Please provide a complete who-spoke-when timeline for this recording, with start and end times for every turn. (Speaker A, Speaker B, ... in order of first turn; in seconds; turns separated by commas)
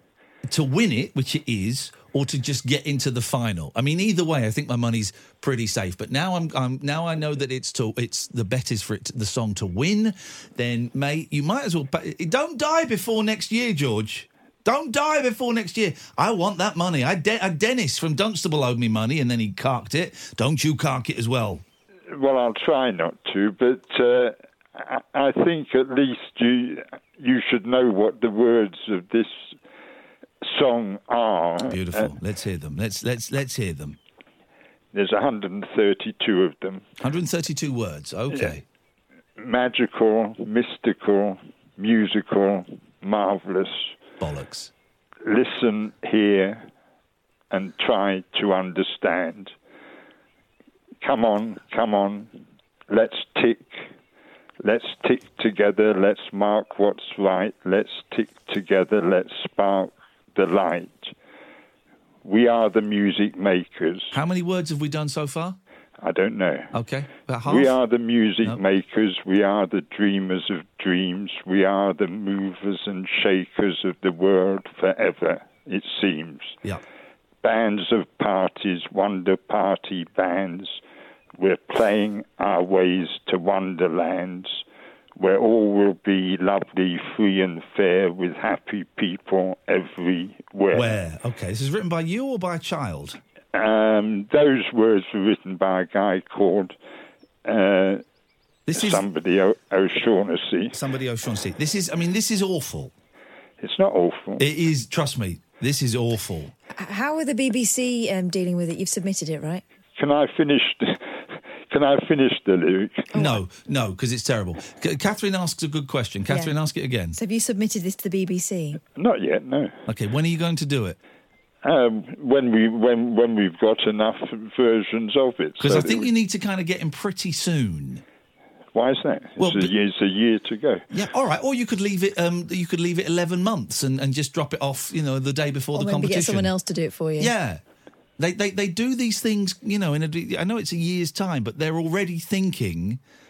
Speaker A: 0.5-21.6, Speaker B: 22.1-29.6, Speaker B: 30.4-32.1, Speaker A: 31.7-34.0, Speaker B: 34.9-36.8, Speaker A: 37.0-38.6, Speaker B: 39.4-44.0, Speaker A: 44.2-44.7, Speaker B: 45.3-46.7, Speaker B: 47.5-49.5, Speaker B: 51.0-52.4, Speaker B: 52.9-53.9, Speaker B: 54.6-61.1, Speaker B: 62.2-64.2, Speaker A: 64.1-65.6, Speaker B: 66.0-66.7, Speaker A: 66.7-67.7, Speaker B: 67.5-76.6, Speaker B: 77.4-80.8, Speaker B: 81.4-84.6, Speaker B: 85.2-90.9, Speaker A: 90.7-93.2, Speaker B: 93.5-96.8, Speaker B: 97.5-98.0, Speaker A: 98.7-99.0, Speaker B: 98.7-100.8, Speaker A: 100.8-102.9, Speaker B: 103.6-104.4, Speaker A: 104.4-106.5, Speaker C: 106.7-109.6, Speaker B: 110.0-113.1, Speaker C: 113.1-113.4, Speaker A: 113.1-117.2, Speaker C: 116.3-116.6, Speaker C: 117.2-118.8, Speaker B: 119.0-119.8, Speaker A: 119.9-121.0, Speaker B: 121.7-126.1, Speaker A: 125.6-128.0, Speaker B: 128.7-130.8, Speaker A: 129.4-129.7, Speaker A: 130.9-136.5, Speaker C: 135.8-137.3, Speaker A: 137.2-137.6, Speaker A: 138.2-143.0